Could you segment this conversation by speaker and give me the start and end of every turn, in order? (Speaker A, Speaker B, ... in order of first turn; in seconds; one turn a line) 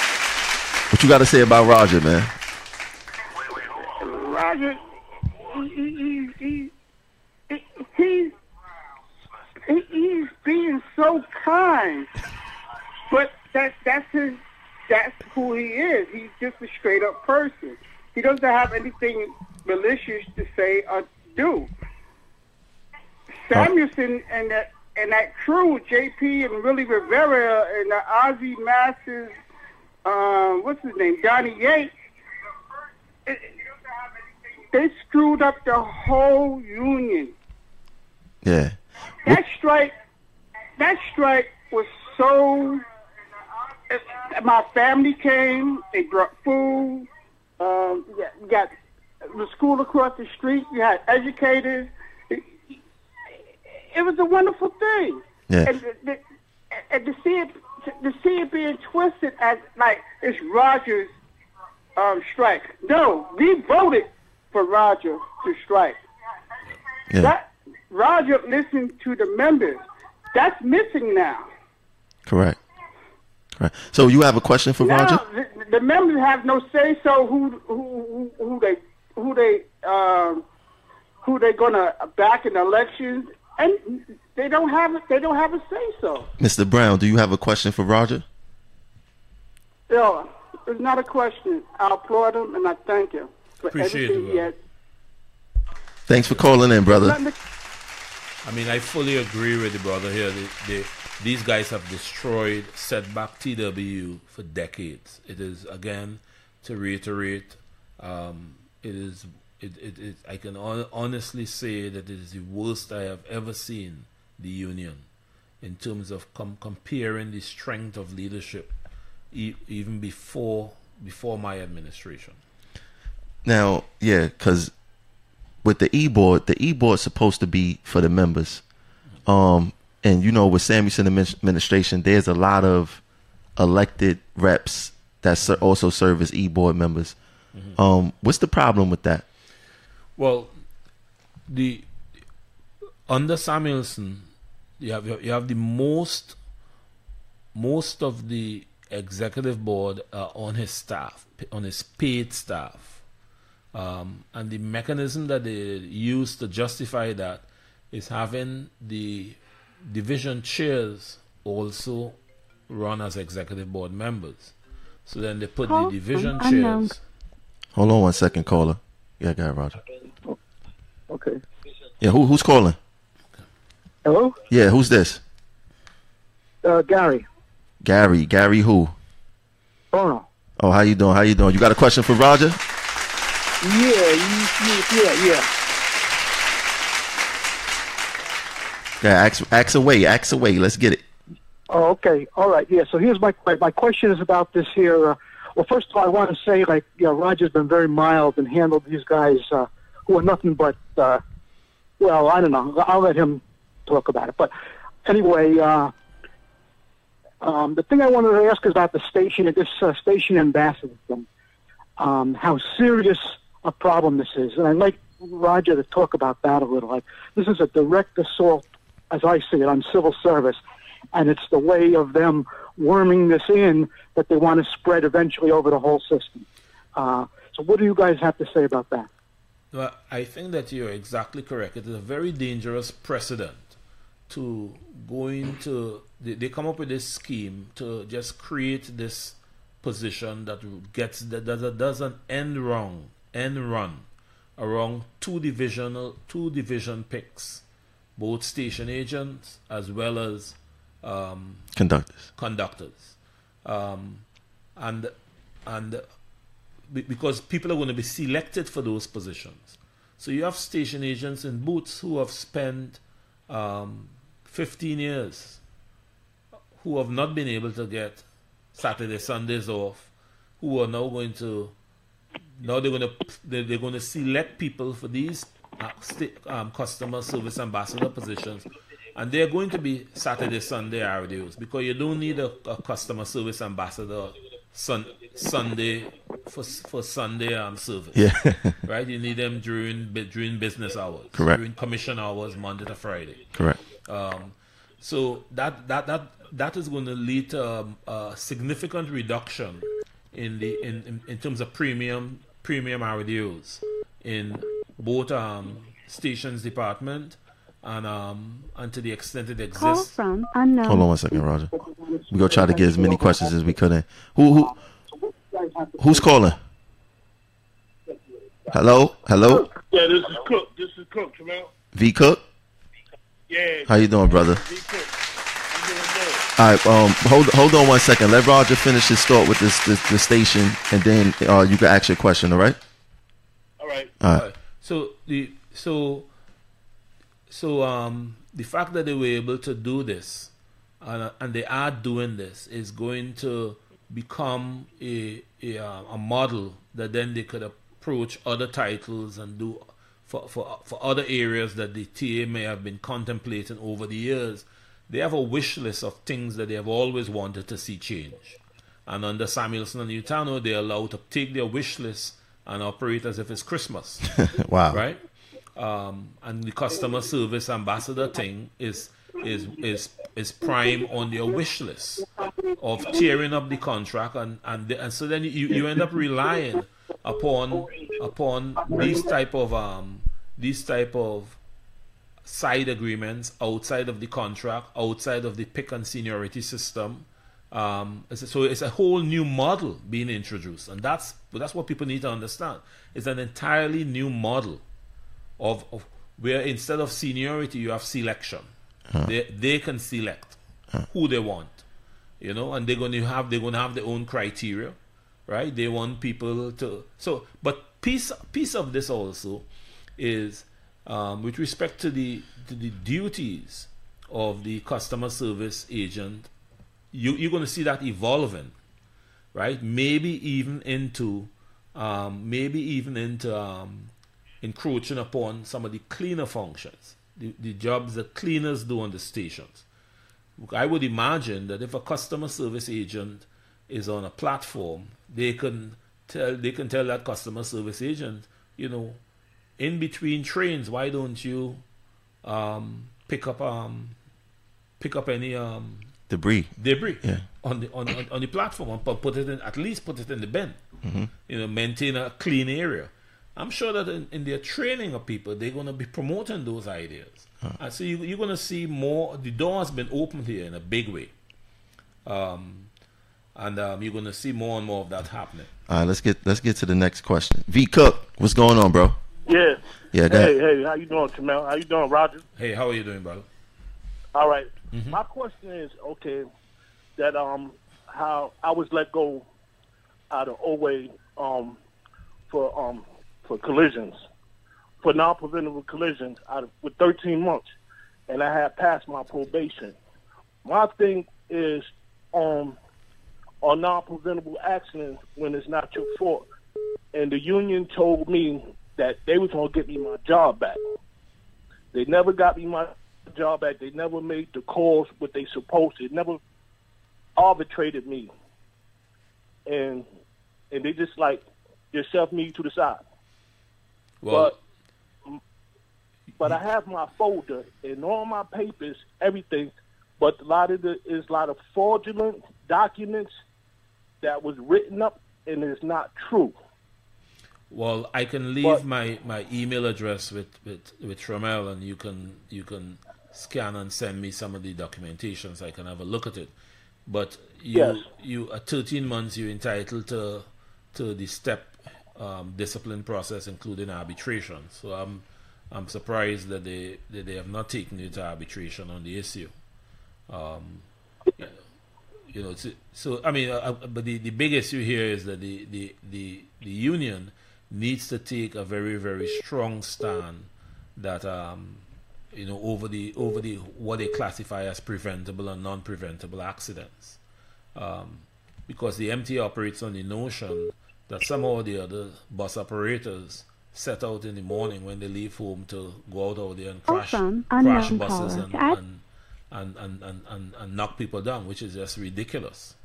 Speaker A: 0.9-2.3
Speaker B: 3.9-4.8
Speaker B: 5.5-6.7
Speaker B: 7.5-8.3
Speaker B: 9.7-12.1
Speaker B: 13.1-14.4
Speaker B: 14.9-21.7
Speaker B: 23.5-29.3
Speaker B: 30.1-31.9
Speaker B: 34.7-37.3
Speaker A: 38.4-39.4
Speaker B: 39.3-39.9
Speaker B: 40.8-42.8
Speaker B: 43.9-47.0
Speaker B: 47.6-48.7
Speaker B: 49.3-52.4
Speaker B: 53.9-56.2
Speaker B: 56.9-57.5
Speaker B: 58.0-61.1
Speaker B: 62.0-65.9
Speaker B: 67.2-69.8
Speaker B: 70.4-71.4
Speaker A: 72.3-72.6
Speaker A: 73.6-75.2
Speaker B: 74.8-80.4
Speaker B: 81.2-86.2
Speaker A: 86.4-88.2
Speaker B: 89.9-94.5
Speaker C: 93.7-94.5
Speaker A: 96.1-97.2
Speaker B: 97.0-97.3
Speaker C: 98.4-115.1
Speaker C: 115.6-118.7
Speaker C: 119.3-122.4
Speaker A: 123.4-124.7
Speaker A: 125.6-128.6
Speaker A: 129.2-133.0
Speaker A: 133.6-137.2
Speaker A: 137.8-139.2
Speaker C: 140.2-140.5
Speaker C: 141.5-141.9
Speaker C: 143.1-144.3
Speaker C: 144.8-146.4
Speaker C: 147.5-153.0
Speaker C: 153.7-167.0
Speaker D: 165.7-166.9
Speaker A: 167.7-169.8
Speaker E: 171.1-171.4
Speaker A: 172.0-172.8
Speaker E: 174.1-174.4
Speaker A: 174.5-175.2
Speaker E: 176.6-177.2
Speaker A: 177.8-178.9
Speaker E: 179.9-180.2
Speaker A: 180.6-182.6
Speaker E: 183.6-185.5
Speaker A: 189.0-191.0
Speaker E: 191.7-201.2
Speaker E: 202.0-205.9
Speaker E: 207.4-211.3
Speaker E: 212.0-220.6
Speaker E: 221.1-229.1
Speaker C: 229.7-233.7
Speaker C: 234.3-247.6
Speaker C: 248.2-251.7
Speaker A: 251.8-252.2
Speaker C: 252.3-254.2
Speaker C: 254.8-255.1
Speaker C: 255.7-256.1
Speaker C: 256.9-265.6
Speaker C: 266.8-271.8
Speaker C: 272.6-288.3
Speaker A: 288.1-288.8
Speaker C: 288.8-293.5
Speaker C: 294.1-310.2
Speaker D: 309.8-311.1
Speaker A: 310.8-311.7
Speaker E: 311.8-313.5
Speaker A: 312.3-314.7
Speaker E: 315.2-316.3
Speaker A: 316.0-316.6
Speaker A: 318.7-319.7
Speaker F: 319.6-321.7
Speaker A: 321.9-322.4
Speaker F: 323.5-325.1
Speaker A: 323.9-324.6
Speaker F: 325.7-326.5
Speaker A: 326.6-332.8
Speaker F: 333.8-334.1
Speaker C: 334.3-336.3
Speaker C: 337.5-364.3
Speaker A: 364.4-365.0
Speaker C: 364.9-365.2
Speaker C: 365.8-381.6
Speaker C: 382.4-394.8
Speaker C: 395.6-398.7
Speaker C: 399.2-401.8
Speaker C: 402.4-409.7
Speaker C: 410.2-416.5
Speaker C: 417.1-418.7
Speaker C: 419.5-424.1
Speaker C: 424.6-429.9
Speaker C: 430.6-439.2
Speaker C: 439.8-441.8
Speaker C: 442.4-444.2
Speaker C: 445.0-446.1
Speaker A: 446.3-447.4
Speaker C: 446.8-450.8
Speaker A: 451.0-451.3
Speaker C: 451.5-461.3
Speaker C: 462.3-462.9
Speaker C: 463.6-465.7
Speaker A: 465.9-469.2
Speaker F: 469.5-472.4
Speaker A: 470.1-470.6
Speaker C: 472.6-473.5
Speaker F: 474.3-476.5
Speaker C: 474.9-475.2
Speaker F: 477.2-479.5
Speaker F: 480.3-481.8
Speaker F: 482.5-484.2
Speaker F: 485.0-487.6
Speaker F: 488.3-490.0
Speaker F: 490.6-492.8
Speaker F: 493.6-496.4
Speaker F: 497.1-500.8
Speaker F: 501.9-506.4
Speaker F: 507.4-508.3
Speaker F: 509.7-510.1
Speaker F: 510.7-513.0
Speaker C: 514.2-514.6
Speaker F: 514.3-514.5
Speaker F: 516.4-523.3
Speaker F: 524.2-526.5
Speaker C: 527.7-536.5
Speaker C: 537.1-549.5
Speaker F: 537.7-538.0
Speaker C: 550.3-550.9
Speaker C: 552.3-567.2
Speaker C: 567.8-582.8
Speaker D: 576.9-578.8